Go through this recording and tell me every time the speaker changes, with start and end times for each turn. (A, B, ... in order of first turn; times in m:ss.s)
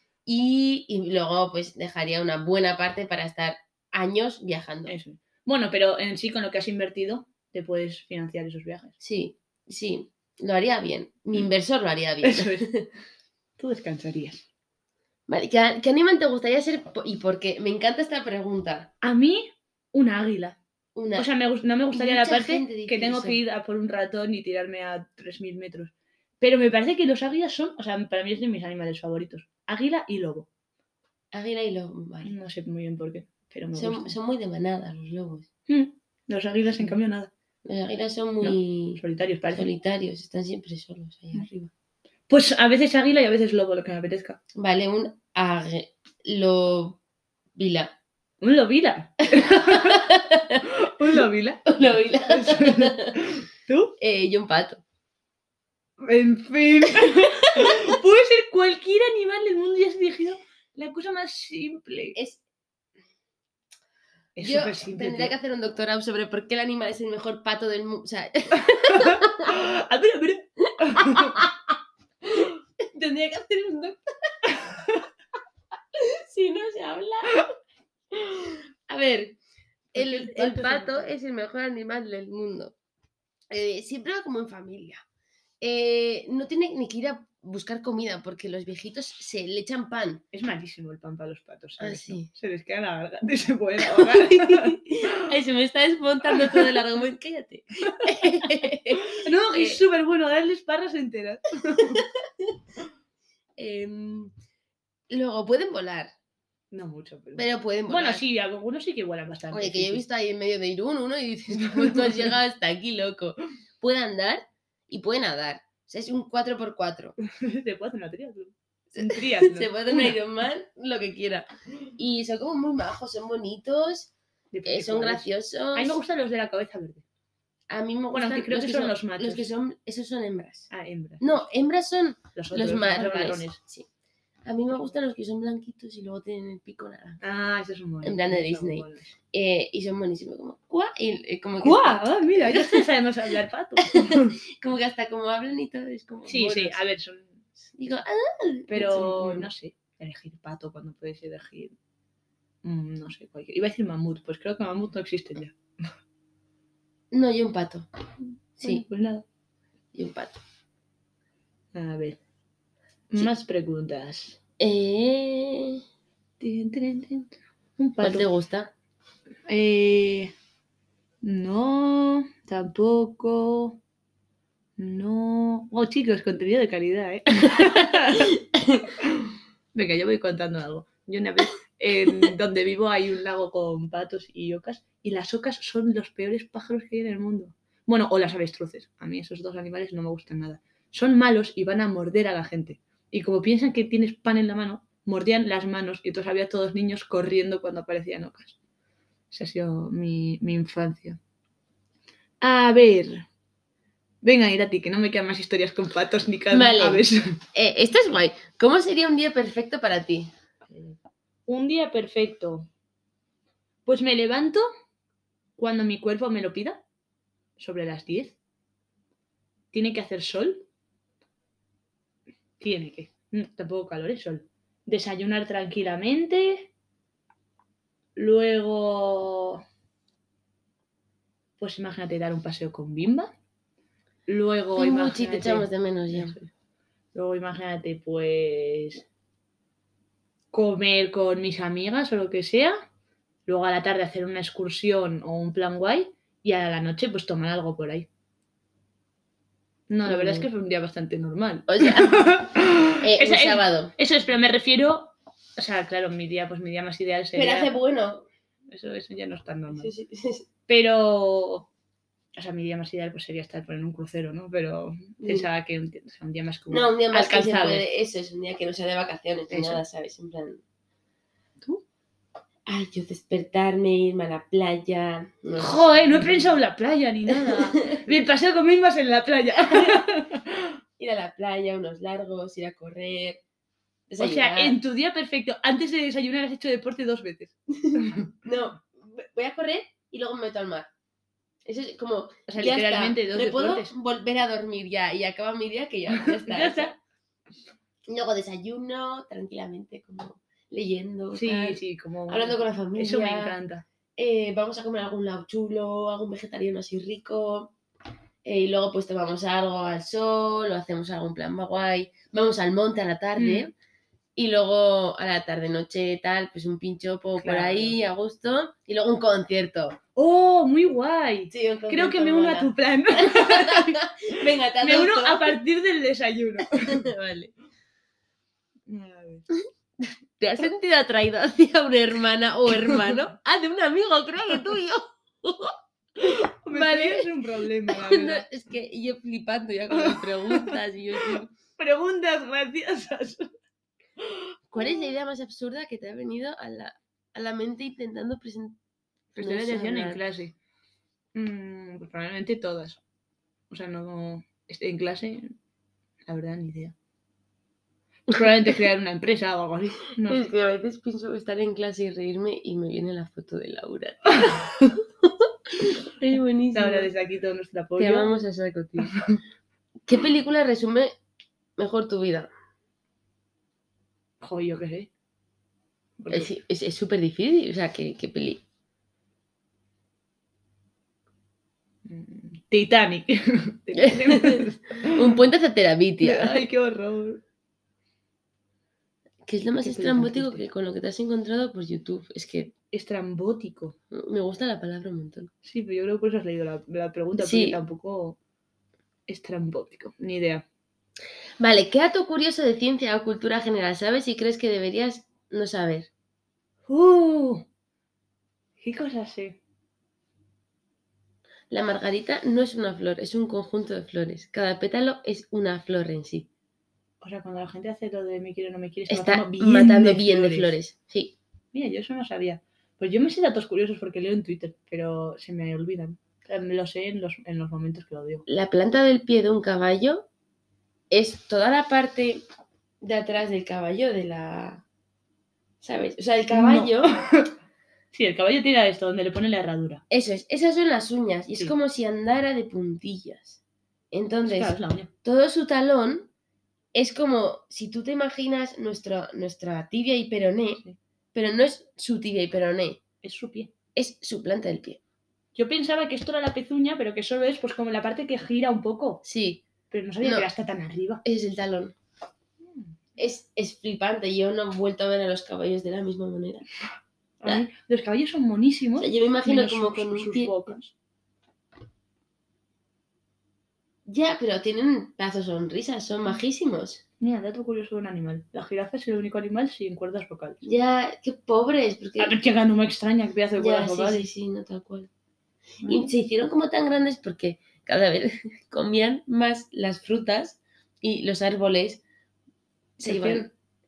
0:00.3-0:04.9 A
0:04.9-0:09.0 B
0:09.0-0:12.9 A
0:12.2-0:12.7 B
0:13.6-0:14.5 B
0:15.3-0:18.9 A
0:19.0-0:20.6 B
0:21.0-0:21.3 A
0:21.2-0:30.5 B
0:21.9-0:23.4 A
0:31.3-0:32.3 A
0:32.2-0:34.2 B
0:33.8-0:35.5 A
0:35.7-0:37.3 B
0:37.6-0:39.0 A
0:38.4-0:39.7 B
0:39.5-0:41.5 A
0:41.3-0:41.7 B
0:42.3-0:44.4 B
0:44.6-0:47.0 A
0:47.6-0:47.9 A
0:48.4-0:54.0 B
0:49.4-0:50.7 A
0:51.7-0:53.2 A
0:54.0-0:54.8 A
0:56.0-1:02.2 B
0:56.9-0:57.9 A
1:02.2-1:02.4 A
1:04.4-1:05.4 B
1:04.4-1:09.5 A
1:08.5-1:11.4 B
1:10.8-1:11.7 A
1:12.2-1:14.0 A
1:14.5-1:15.0 B
1:15.9-1:17.4 A
1:18.1-1:19.4 A
1:19.9-1:21.1 B
1:19.9-1:22.7 A
1:23.5-1:25.0 A
1:25.6-1:30.2 A
1:30.3-1:35.1 B
1:31.8-1:32.3 A
1:33.8-1:39.8 A
1:36.3-1:36.7 B
1:37.9-1:42.1 B
1:41.8-1:42.6 A
1:43.6-1:44.3 A
1:45.1-1:46.1 A
1:46.7-1:50.0 B
1:47.4-1:48.2 A
1:49.5-1:57.1 A
1:51.6-1:52.4 B
1:57.2-2:00.2 B
1:58.9-2:04.1 A
2:04.5-2:07.0 B
2:04.6-2:06.0 A
2:07.7-2:10.7 A
2:08.1-2:09.5 B
2:10.7-2:11.5 B
2:11.2-2:13.9 A
2:12.4-2:13.6 B
2:14.4-2:17.2 A
2:17.2-2:19.2 B
2:18.0-2:22.9 A
2:21.6-2:24.4 B
2:23.8-2:26.8 A
2:26.3-2:27.4 B
2:27.7-2:29.5 A
2:28.7-2:31.8 B
2:32.6-2:35.9 B
2:37.1-2:37.9 A
2:38.6-2:39.2 B
2:38.6-2:38.8 A
2:39.9-2:40.4 A
2:41.7-2:42.2 B
2:43.1-2:44.4 B
2:44.6-2:45.8 A
2:46.4-2:48.3 B
2:48.0-2:48.7 A
2:49.5-2:50.3 B
2:51.2-2:53.8 B
2:54.8-2:58.4 B
2:58.3-2:58.9 A
2:59.0-3:18.6 B
3:19.3-3:21.2 B
3:22.4-3:23.3 B
3:24.2-3:27.4 B
3:26.5-3:30.3 A
3:30.7-3:32.7 B
3:33.9-3:34.6 B
3:35.6-3:36.8 B
3:37.6-3:38.4 B
3:39.7-3:40.7 B
3:42.6-3:46.7 B
3:48.2-3:49.6 B
3:51.6-3:53.3 B
3:54.3-3:56.5 B
3:54.8-3:56.4 A
3:57.1-3:59.0 B
4:00.5-4:02.8 B
4:03.5-4:08.1 B
4:09.9-4:17.7 B
4:10.0-4:10.5 A
4:11.7-4:12.4 A
4:13.0-4:13.9 A
4:17.4-4:18.2 A
4:18.7-4:19.9 B
4:19.8-4:20.4 A
4:20.7-4:21.7 B
4:22.4-4:27.9 B
4:25.2-4:25.5 A
4:26.7-4:30.6 A
4:29.5-4:29.8 B
4:32.7-4:36.6 A
4:35.6-4:40.7 B
4:37.3-4:38.0 A
4:39.7-4:40.0 A
4:41.0-4:43.4 A
4:44.1-4:44.8 A
4:44.2-4:48.3 B
4:47.8-4:50.9 A
4:51.6-4:56.9 A
4:52.5-4:53.9 B
4:56.1-4:57.0 B
4:58.1-5:03.6 A
5:01.4-5:03.8 B
5:04.2-5:07.7 A
5:08.5-5:13.7 A
5:13.4-5:13.7 B
5:14.4-5:20.0 A
5:17.4-5:18.0 B
5:20.2-5:24.0 B
5:21.5-5:25.6 A
5:24.8-5:27.1 B
5:26.8-5:27.5 A
5:28.9-5:29.5 B
5:30.0-5:35.8 A
5:32.7-5:33.3 B
5:36.2-5:38.5 B
5:36.7-5:37.3 A
5:37.9-5:41.5 A
5:39.9-5:43.5 B
5:44.2-5:45.1 B
5:44.7-5:48.8 A
5:49.4-5:50.6 B
5:49.4-5:50.2 A
5:51.4-5:53.0 B
5:53.7-5:55.5 B
5:56.3-5:57.0 B
5:58.3-6:00.5 B
6:00.3-6:04.6 A
6:04.3-6:04.9 B
6:05.2-6:07.1 A
6:06.7-6:08.4 B
6:08.0-6:09.2 A
6:09.0-6:09.4 B
6:10.1-6:11.1 A
6:11.8-6:12.5 A
6:14.4-6:15.1 B
6:16.2-6:16.5 B
6:16.3-6:18.6 A
6:22.1-6:25.3 B
6:24.0-6:26.7 A
6:26.2-6:27.4 B
6:29.4-6:32.7 A
6:29.8-6:30.6 B
6:32.9-6:34.0 B
6:34.1-6:35.5 A
6:35.6-6:38.4 B
6:37.4-6:37.8 A
6:39.3-6:40.6 B
6:41.6-6:46.1 A
6:46.9-6:47.7 B
6:48.8-6:49.6 B
6:51.7-6:56.5 A
6:57.2-7:00.8 B
6:59.1-7:01.4 A
7:01.7-7:08.5 B
7:08.5-7:10.3 A
7:11.1-7:12.4 A
7:13.0-7:14.8 A
7:15.8-7:17.1 A
7:16.5-7:17.5 B
7:18.1-7:20.0 B
7:20.1-7:23.6 A
7:24.1-7:26.3 A
7:24.4-7:25.1 B
7:26.9-7:30.8 A
7:31.3-7:33.0 A
7:33.2-7:33.7 B
7:34.0-7:35.0 A
7:35.6-7:39.2 B
7:39.2-7:39.6 A
7:39.9-7:41.2 B
7:40.2-7:40.5 A
7:41.2-7:42.0 A
7:42.6-7:42.9 B
7:43.2-7:46.6 A
7:47.4-7:50.9 B
7:49.0-7:50.6 A
7:54.1-7:57.0 A
7:57.2-8:00.6 B
8:00.6-8:02.4 A
8:02.2-8:04.3 B
8:03.6-8:05.1 A
8:05.8-8:06.1 B
8:05.9-8:12.0 A
8:13.0-8:13.5 A
8:13.0-8:13.5 B